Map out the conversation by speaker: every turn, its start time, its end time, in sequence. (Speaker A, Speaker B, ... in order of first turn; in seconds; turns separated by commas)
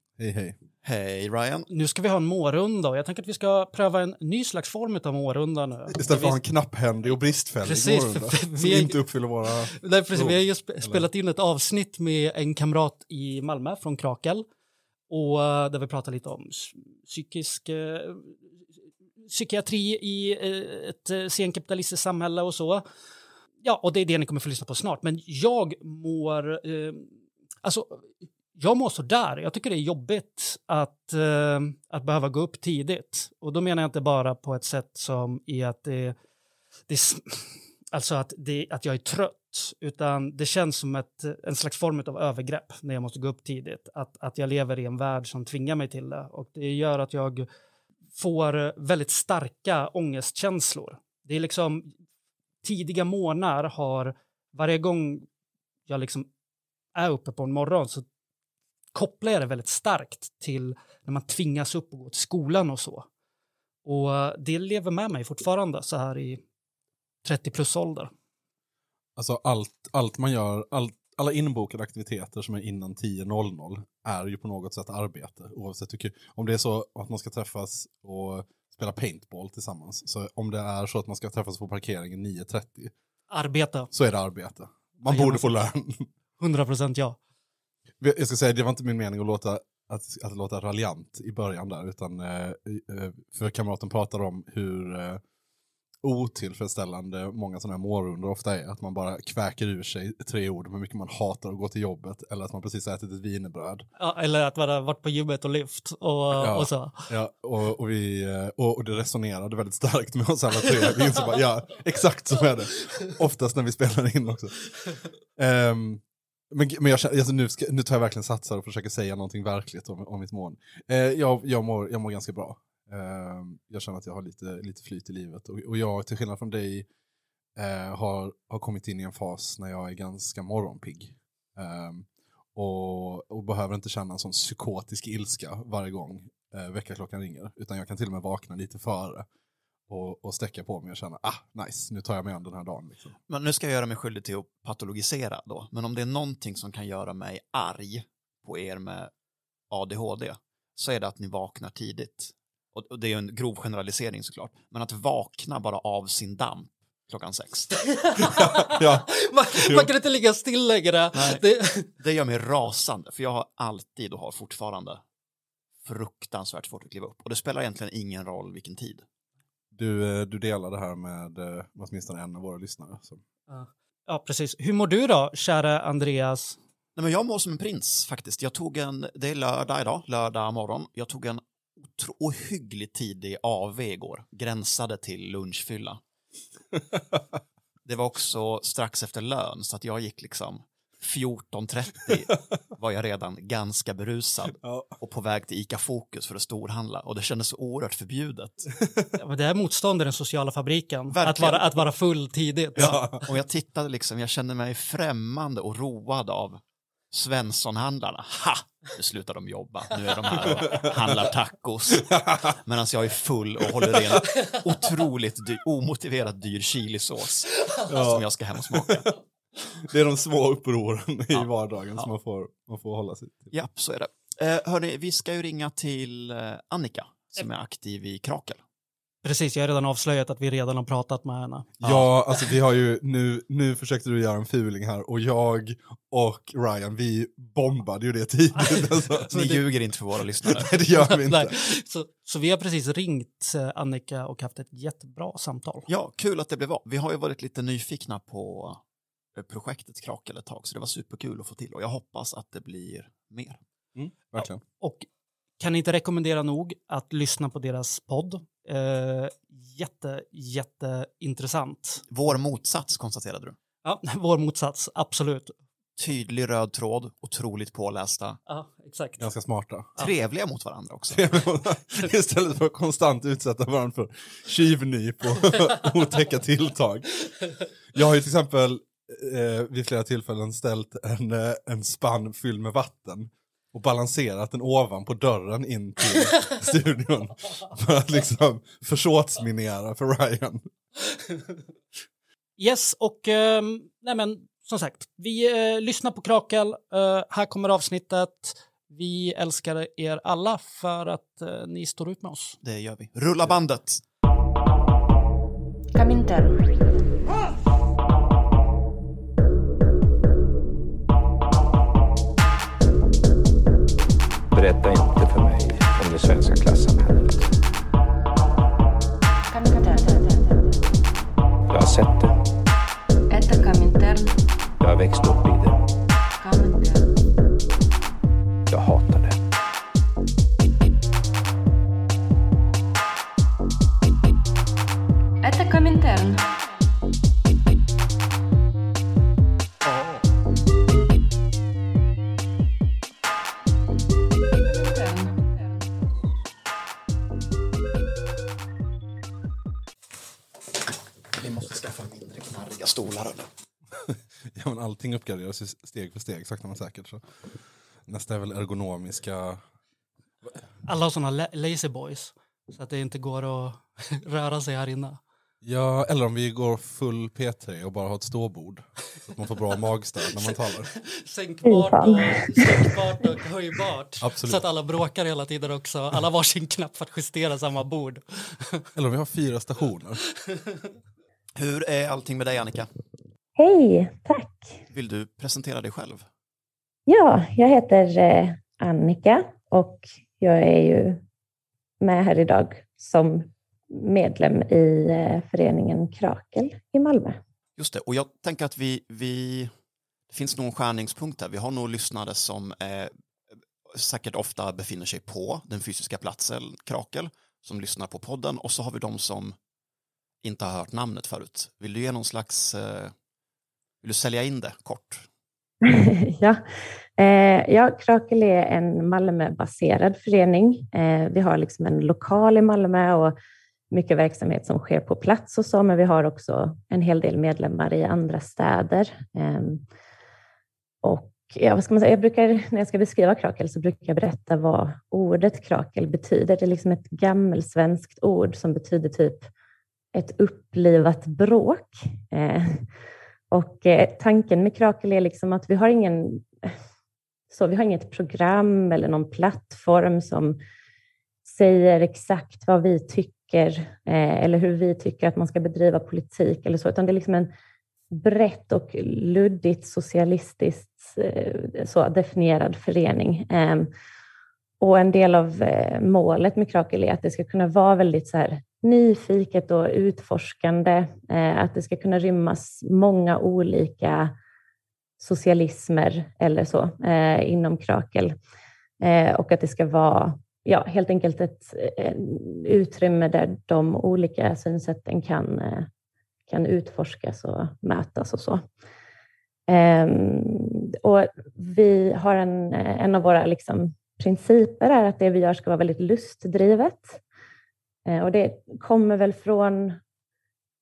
Speaker A: 0.2-0.6, Speaker B: 0.8-1.7, Speaker C: 1.7-6.4, Speaker A: 5.9-11.1, Speaker C: 7.6-9.0, Speaker C: 9.8-14.5, Speaker C: 15.1-18.3, Speaker C: 19.2-22.8, Speaker C: 23.6-27.1, Speaker C: 27.6-28.0, Speaker C: 28.6-36.1, Speaker C: 36.9-47.5, Speaker C: 48.2-51.9, Speaker C: 52.6-55.3, Speaker C: 55.9-56.3, Speaker C: 57.0-58.0, Speaker C: 58.9-63.1, Speaker C: 63.9-66.4, Speaker C: 67.2-68.1, Speaker A: 69.2-82.9, Speaker C: 83.3-83.9, Speaker A: 83.9-86.1, Speaker C: 85.1-85.5, Speaker C: 86.4-87.2, Speaker A: 88.0-95.2, Speaker A: 96.0-103.8, Speaker C: 104.0-107.1, Speaker A: 106.4-114.7, Speaker A: 115.3-126.9, Speaker A: 127.6-139.2, Speaker A: 139.9-143.2, Speaker B: 143.3-149.1, Speaker B: 149.7-157.8, Speaker C: 157.9-161.9, Speaker A: 158.4-159.9, Speaker B: 161.1-161.4, Speaker B: 162.0-165.0, Speaker B: 165.8-169.0, Speaker A: 169.7-173.2, Speaker C: 173.5-176.6, Speaker B: 177.0-186.0, Speaker A: 186.9-187.2, Speaker B: 187.8-198.7, Speaker A: 194.6-194.9, Speaker C: 199.2-203.0, Speaker B: 201.1-201.7, Speaker A: 202.8-203.2, Speaker B: 202.8-219.2, Speaker A: 212.0-212.5, Speaker A: 217.9-219.0, Speaker A: 219.8-223.5, Speaker B: 221.3-222.1, Speaker B: 223.5-228.6, Speaker C: 229.2-231.7, Speaker A: 231.8-239.6, Speaker B: 239.3-240.8, Speaker A: 240.4-241.6, Speaker C: 241.0-245.9, Speaker B: 245.9-248.8, Speaker B: 249.4-253.6, Speaker A: 254.0-254.6, Speaker C: 254.4-255.1, Speaker C: 255.6-262.0, Speaker B: 262.1-263.6, Speaker C: 263.8-265.6, Speaker B: 266.0-268.4, Speaker C: 268.5-269.2, Speaker A: 269.2-269.9, Speaker B: 270.0-271.4, Speaker A: 271.1-277.1, Speaker A: 277.9-290.6, Speaker C: 292.6-302.6, Speaker B: 302.6-304.0, Speaker D: 305.9-306.7, Speaker E: 314.5-317.5, Speaker D: 319.5-320.9, Speaker E: 321.7-322.4, Speaker D: 323.3-324.4, Speaker E: 324.8-325.8, Speaker D: 326.4-327.1, Speaker E: 328.7-329.4, Speaker D: 335.4-336.5, Speaker D: 344.6-345.7, Speaker B: 351.4-353.5, Speaker A: 354.1-357.2, Speaker A: 358.1-359.6, Speaker C: 360.9-365.2, Speaker A: 365.6-370.9, Speaker C: 371.1-378.8, Speaker F: 371.7-372.9, Speaker A: 374.2-374.6, Speaker A: 378.9-380.2, Speaker B: 381.6-382.9, Speaker F: 383.6-384.7, Speaker B: 384.9-386.2, Speaker F: 387.1-391.2, Speaker F: 392.0-397.4, Speaker B: 397.8-399.7, Speaker B: 400.3-403.1, Speaker B: 403.9-409.6, Speaker B: 410.4-413.1, Speaker B: 414.0-415.3, Speaker F: 415.8-416.6, Speaker F: 417.2-423.4, Speaker F: 423.9-429.8, Speaker F: 431.0-439.5, Speaker F: 440.1-442.8, Speaker F: 443.5-446.7, Speaker F: 447.5-450.6, Speaker F: 451.4-457.5, Speaker F: 458.1-463.9, Speaker F: 464.8-474.3, Speaker F: 475.2-478.4, Speaker F: 479.0-485.9, Speaker F: 486.5-488.6, Speaker F: 489.7-497.2, Speaker F: 498.1-500.0